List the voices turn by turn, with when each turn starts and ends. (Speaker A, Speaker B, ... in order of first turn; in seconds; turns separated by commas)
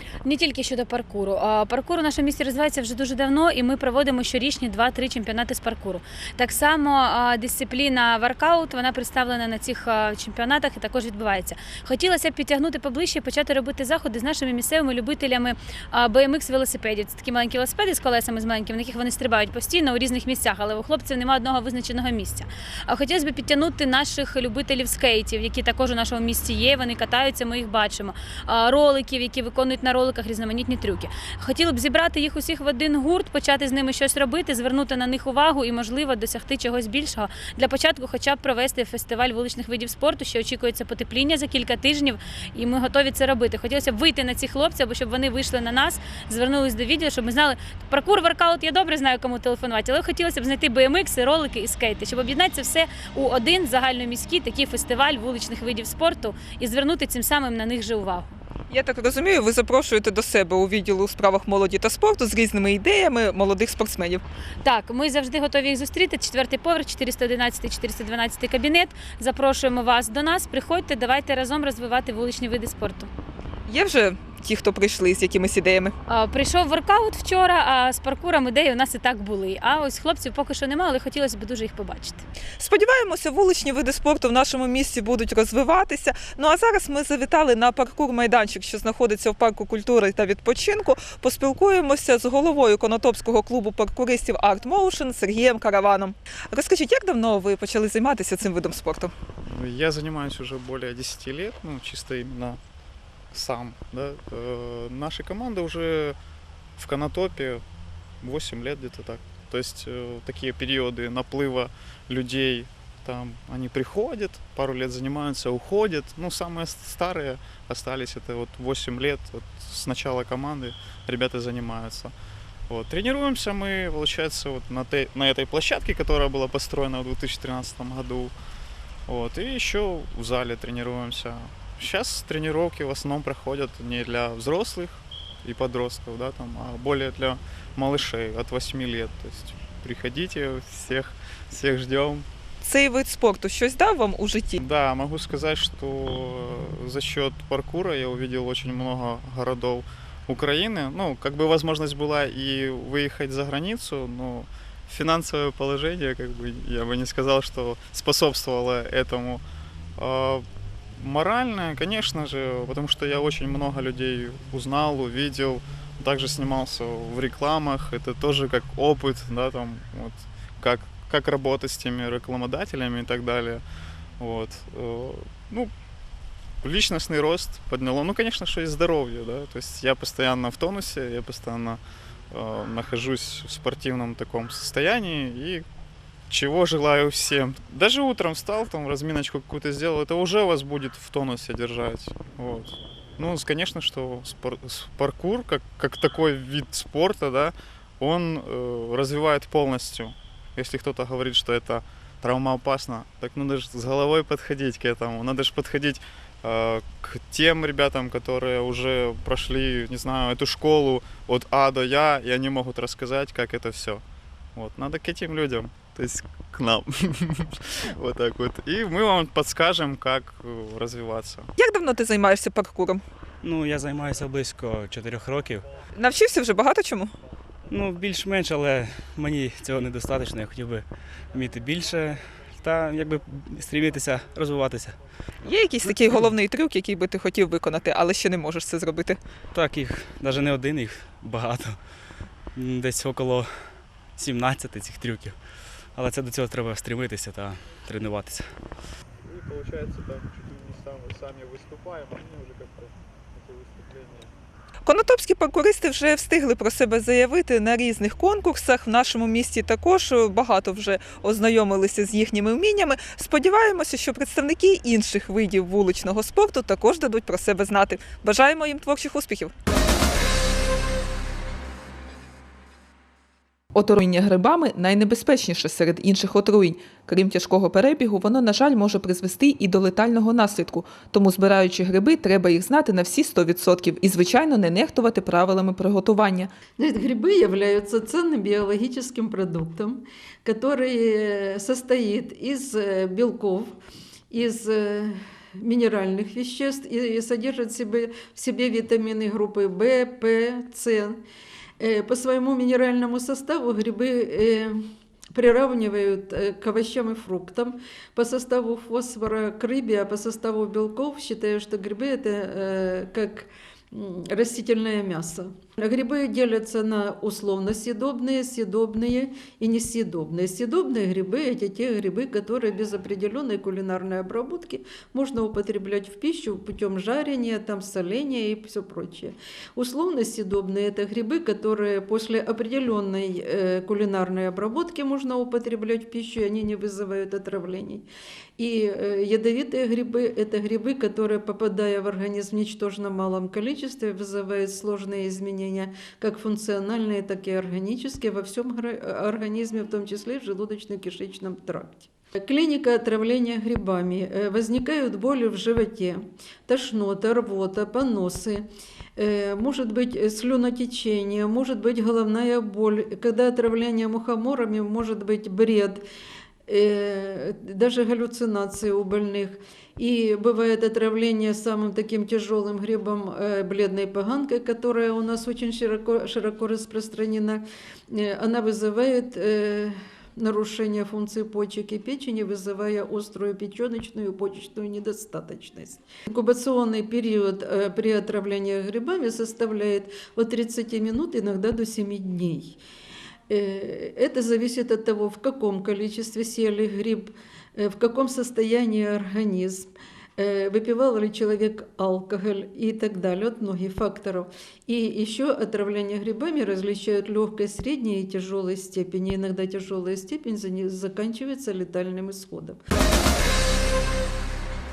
Speaker A: 0.2-58.4, Speaker B: 58.7-64.2, Speaker A: 64.6-73.1, Speaker B: 73.7-75.9, Speaker A: 76.1-82.2, Speaker B: 82.6-99.1, Speaker C: 99.4-102.6, Speaker C: 103.3-106.2, Speaker C: 106.8-107.6, Speaker C: 108.2-122.1, Speaker C: 122.7-128.3, Speaker C: 129.1-142.2, Speaker B: 142.6-144.6, Speaker C: 144.6-159.4, Speaker C: 160.0-160.4, Speaker C: 161.0-173.6, Speaker C: 174.2-175.7, Speaker C: 176.6-181.8, Speaker C: 182.3-185.6, Speaker C: 186.3-214.0, Speaker C: 214.6-221.5, Speaker B: 221.6-223.0, Speaker D: 223.4-225.7, Speaker B: 225.9-227.1, Speaker D: 227.7-235.0, Speaker B: 235.4-239.2, Speaker D: 235.9-236.2, Speaker D: 239.5-241.8, Speaker D: 242.6-243.5, Speaker D: 244.2-245.3, Speaker D: 246.0-248.4, Speaker C: 249.2-254.3, Speaker B: 254.8-269.5, Speaker B: 273.7-286.5, Speaker E: 286.8-293.8, Speaker E: 294.3-301.2, Speaker E: 301.8-304.8, Speaker E: 305.3-338.1, Speaker E: 338.6-358.6, Speaker E: 359.2-366.0, Speaker E: 366.7-392.8, Speaker E: 393.5-412.8